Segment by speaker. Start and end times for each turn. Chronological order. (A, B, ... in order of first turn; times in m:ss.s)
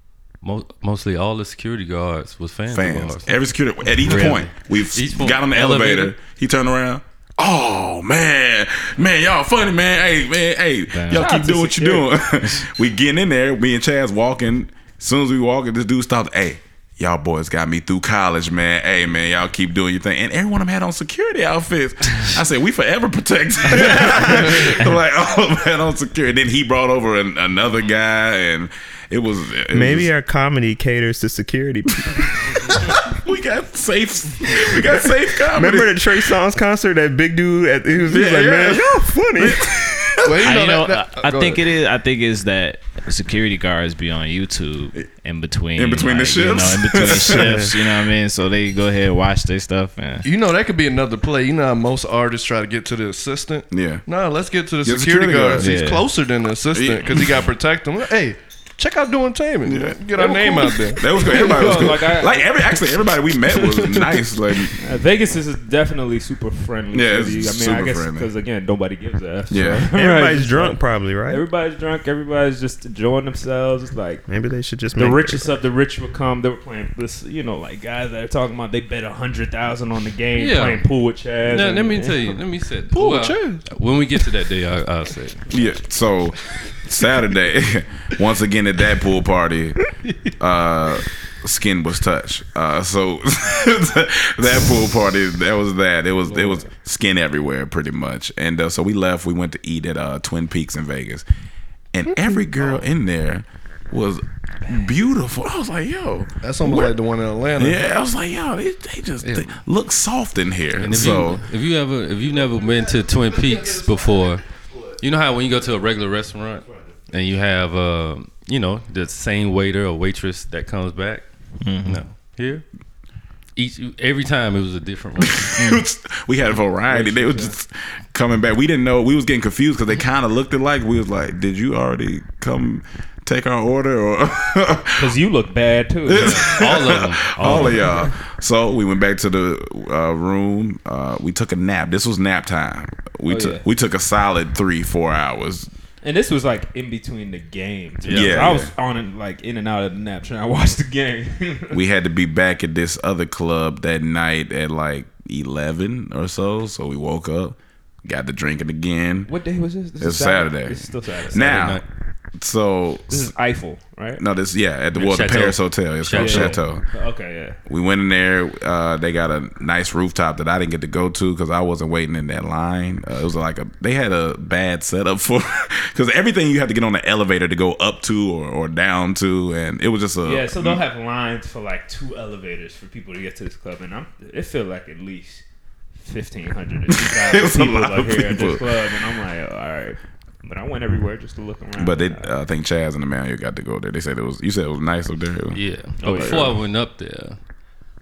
0:00.4-0:03.3 A
0:02.7-0:30.1 B
0:04.0-0:06.1 A
0:04.0-0:04.4 C
0:10.9-0:11.3 C
0:11.1-0:12.1 D
0:29.7-0:32.8 E
0:32.7-0:36.2 B
0:35.5-0:39.8 E
0:38.1-0:40.5 B
0:40.2-0:41.6 F
0:40.4-0:50.3 C
0:45.8-0:47.7 B
0:47.3-0:47.7 E
0:50.2-1:01.1 F
0:53.7-0:54.0 B
0:54.8-0:55.7 B
0:55.6-0:56.1 C
0:56.7-0:57.3 B
0:59.6-1:00.0 B
1:00.1-1:02.6 D
1:01.0-1:04.8 B
1:04.8-1:14.2 D
1:06.9-1:08.3 B
1:09.5-1:09.8 B
1:09.9-1:11.4 E
1:14.3-1:15.5 E
1:14.9-1:22.3 D
1:20.4-1:20.9 A
1:21.4-1:25.5 A
1:22.9-1:23.6 F
1:25.5-1:29.8 B
1:30.3-1:41.2 B
1:41.9-1:46.9 B
1:46.4-1:47.8 F
1:47.6-1:51.4 B
1:50.8-1:54.5 A
1:55.0-2:01.2 A
2:01.6-2:02.0 C
2:01.8-2:02.6 A
2:03.6-2:05.6 A
2:05.2-2:15.1 B
2:06.9-2:07.5 D
2:15.0-2:16.6 D
2:16.1-2:25.7 B
2:16.1-2:18.0 A
2:23.2-2:23.6 D
2:26.0-2:31.8 D
2:28.0-2:28.5 A
2:28.1-2:28.7 B
2:31.7-2:39.3 B
2:39.3-2:41.7 D
2:40.0-2:41.8 B
2:41.3-2:41.8 A
2:42.4-2:43.3 B
2:43.1-2:44.2 D
2:44.2-2:46.8 B
2:44.9-2:46.6 A
2:46.1-2:47.6 D
2:47.7-3:00.8 B
3:00.2-3:05.4 D
3:06.0-3:12.3 D
3:06.9-3:08.9 B
3:11.8-3:15.6 B
3:15.5-3:17.4 A
3:16.0-3:16.6 D
3:16.1-3:16.4 B